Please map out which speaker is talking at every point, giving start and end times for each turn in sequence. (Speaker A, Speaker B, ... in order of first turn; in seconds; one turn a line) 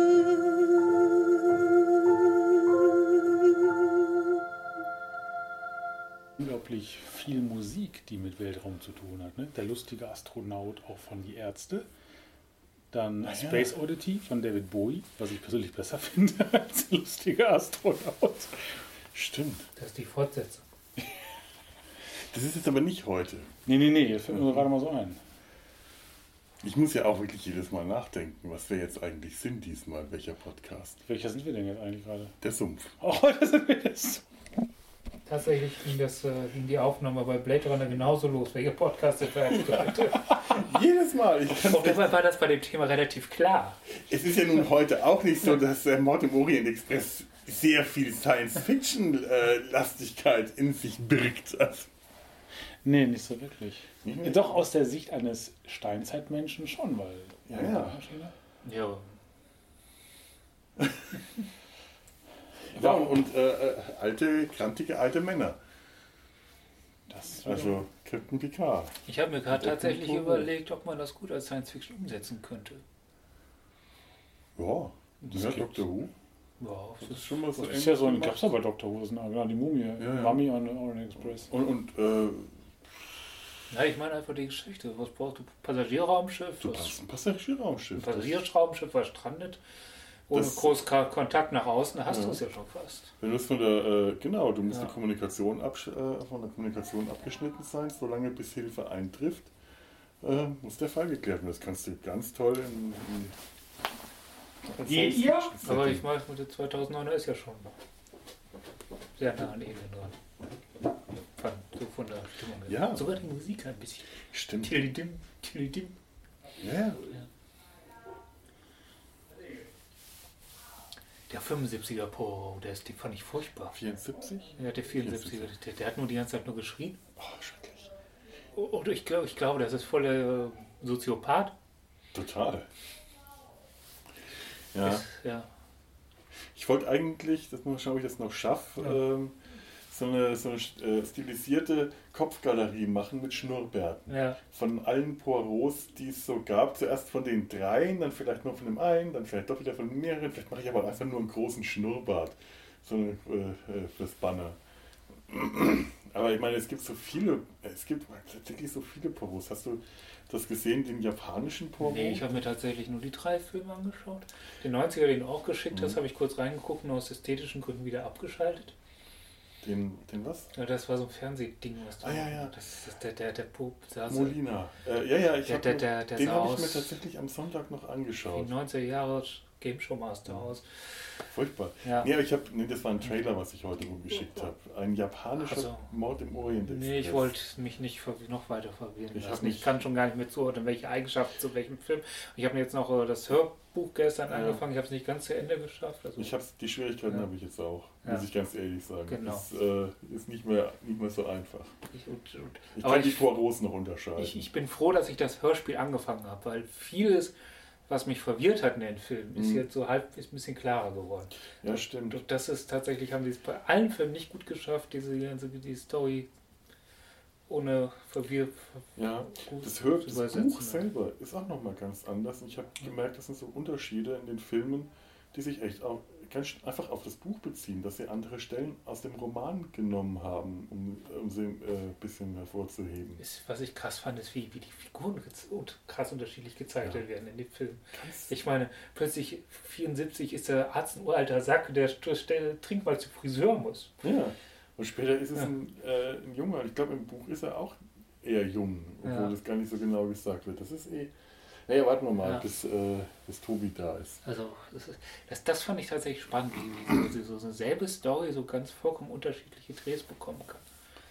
Speaker A: 6.4-11.9
Speaker A: 12.9-18.6
Speaker B: 13.2-13.7
Speaker B: 19.1-19.7
Speaker C: 19.8-20.6
Speaker B: 22.3-23.5
Speaker A: 23.6-25.2
Speaker B: 26.6-31.0
Speaker A: 31.1-32.3
Speaker B: 32.4-32.9
Speaker A: 33.0-34.2
Speaker C: 35.2-40.7
Speaker B: 39.8-42.2
Speaker C: 41.5-43.8
Speaker B: 44.1-51.9
Speaker A: 52.8-58.3
Speaker B: 54.0-54.6
Speaker B: 57.5-58.0
Speaker C: 58.6-59.1
Speaker B: 62.7-65.6
Speaker A: 62.7-63.2
Speaker A: 67.1-67.8
Speaker B: 67.4-68.9
Speaker C: 69.0-72.8
Speaker B: 69.5-70.5
Speaker B: 74.5-76.1
Speaker A: 75.3-75.7
Speaker C: 76.6-77.8
Speaker B: 77.0-78.5
Speaker A: 77.7-81.5
Speaker B: 80.0-80.5
Speaker B: 81.3-82.6
Speaker C: 83.7-87.0
Speaker B: 86.6-88.5
Speaker C: 88.0-89.6
Speaker C: 90.3-93.1
Speaker B: 90.3-90.8
Speaker B: 92.1-92.4
Speaker B: 93.2-99.5
Speaker B: 100.2-103.3
Speaker B: 104.7-106.1
Speaker A: 104.8-105.5
Speaker C: 105.6-107.7
Speaker C: 109.2-110.2
Speaker C: 111.3-114.1
Speaker B: 112.7-113.1
Speaker B: 114.3-114.7
Speaker C: 114.6-115.9
Speaker B: 116.6-117.1
Speaker C: 121.3-123.7
Speaker B: 123.7-125.5
Speaker C: 124.6-127.0
Speaker B: 127.2-127.9
Speaker C: 128.5-131.5
Speaker B: 132.1-132.7
Speaker B: 134.7-135.1
Speaker C: 134.8-135.5
Speaker B: 136.5-139.4
Speaker B: 139.9-154.6
Speaker C: 144.1-144.4
Speaker B: 155.3-162.3
Speaker C: 161.8-168.7
Speaker B: 165.7-166.0
Speaker B: 169.6-170.5
Speaker C: 170.5-174.4
Speaker B: 172.0-172.6
Speaker B: 174.1-178.5
Speaker C: 175.4-177.0
Speaker C: 178.3-180.6
Speaker B: 181.3-187.3
Speaker C: 181.8-182.1
Speaker C: 185.4-185.9
Speaker C: 186.6-196.3
Speaker B: 189.1-189.7
Speaker B: 194.2-194.6
Speaker B: 196.2-201.7
Speaker C: 199.1-199.5
Speaker C: 201.9-203.3
Speaker B: 202.8-204.5
Speaker C: 204.2-207.3
Speaker C: 207.9-211.4
Speaker B: 209.3-209.6
Speaker B: 211.6-212.2
Speaker C: 212.1-216.3
Speaker C: 217.5-220.9
Speaker B: 218.9-233.2
Speaker C: 233.2-243.9
Speaker B: 237.9-238.3
Speaker B: 244.0-251.1
Speaker C: 249.0-249.3
Speaker B: 251.7-254.2
Speaker C: 254.2-260.6